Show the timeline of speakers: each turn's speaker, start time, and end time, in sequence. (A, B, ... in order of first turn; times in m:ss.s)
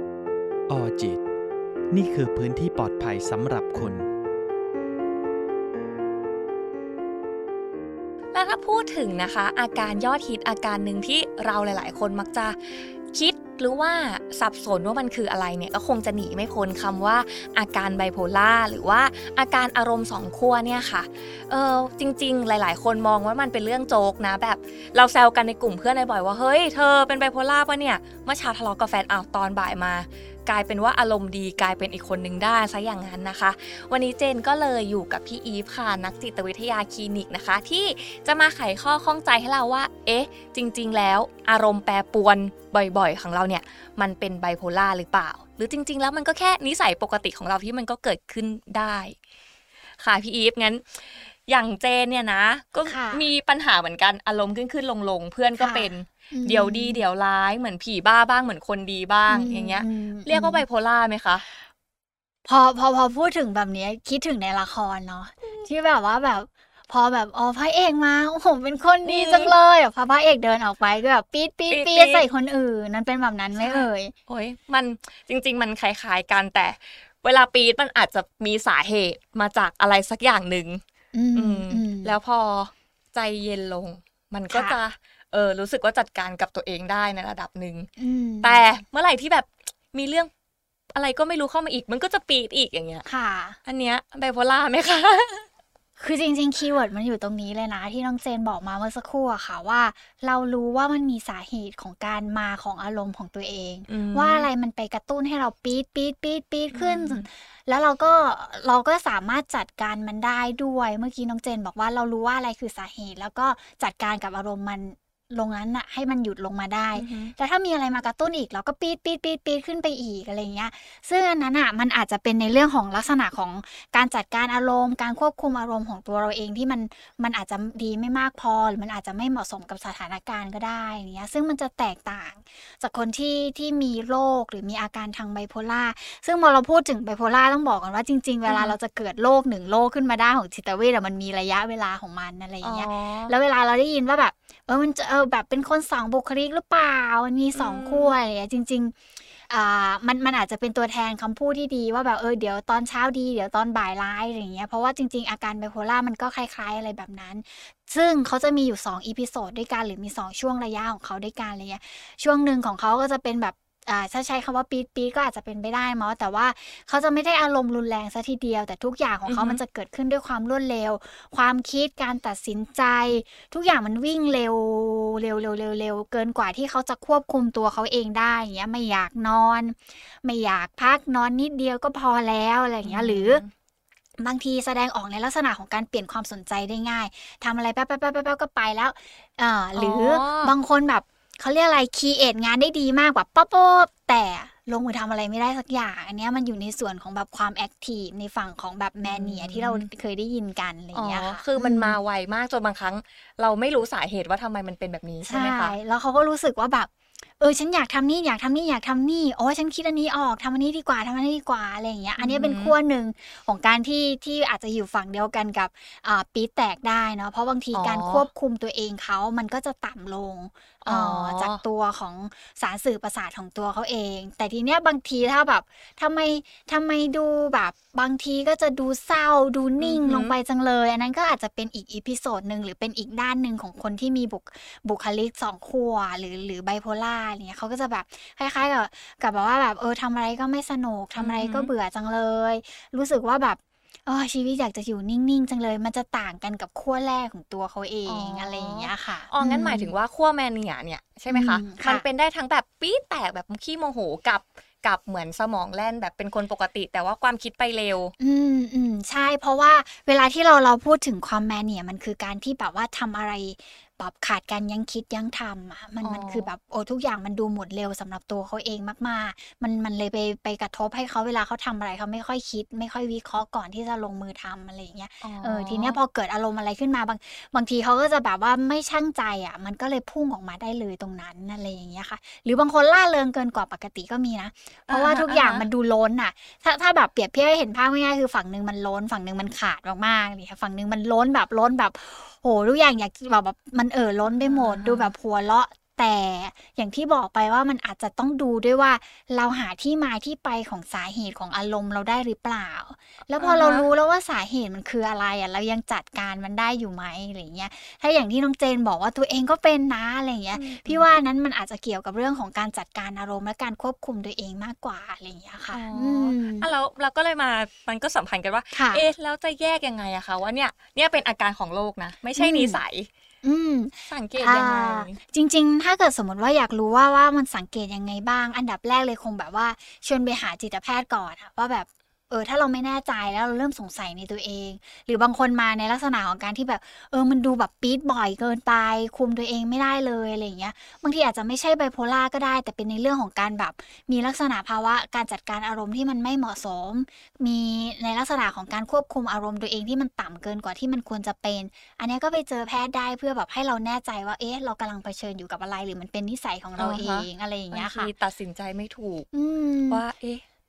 0:00.7-0:01.2 A
0:01.9-0:04.1 A
0:08.3-0:49.2 B
0:50.0-1:01.4 B
0:52.8-0:53.3 C
0:55.6-0:57.0 C
0:59.3-1:00.6 C
1:02.4-1:14.1 C
1:09.0-1:09.6 B
1:11.7-1:12.2 B
1:13.6-1:20.8 B
1:21.1-1:22.2 C
1:21.3-1:27.9 B
1:24.5-1:24.8 C
1:28.0-1:28.7 C
1:28.4-1:30.3 B
1:30.9-1:33.0 B
1:33.0-1:33.6 C
1:33.6-1:35.5 B
1:36.0-3:03.4 C
1:43.9-1:44.4 B
1:46.7-1:47.2 B
1:56.9-1:57.3 B
2:18.5-2:18.8 B
2:22.6-2:23.3 B
2:27.5-2:28.1 B
2:49.2-2:49.6 B
3:02.8-3:03.5 B
3:04.2-3:22.0 C
3:09.7-3:10.5 B
3:19.0-3:19.9 B
3:20.9-3:25.8 B
3:25.2-4:09.9 C
3:32.2-3:32.7 B
3:37.7-3:38.3 B
3:40.8-3:41.6 B
3:49.8-3:50.3 B
4:01.2-4:01.7 B
4:08.0-4:18.1 B
4:11.3-4:12.0 C
4:18.2-5:16.7 C
4:26.0-4:26.5 B
4:35.2-4:36.0 B
4:44.9-4:45.7 B
4:54.4-4:55.1 B
5:03.4-5:03.9 B
5:10.5-5:11.0 B
5:15.7-5:23.1 B
5:18.7-5:19.0 C
5:22.4-5:22.8 C
5:23.4-5:58.1 C
5:24.1-5:25.2 B
5:56.8-5:59.3 B
5:59.3-6:00.0 C
5:59.9-6:00.4 B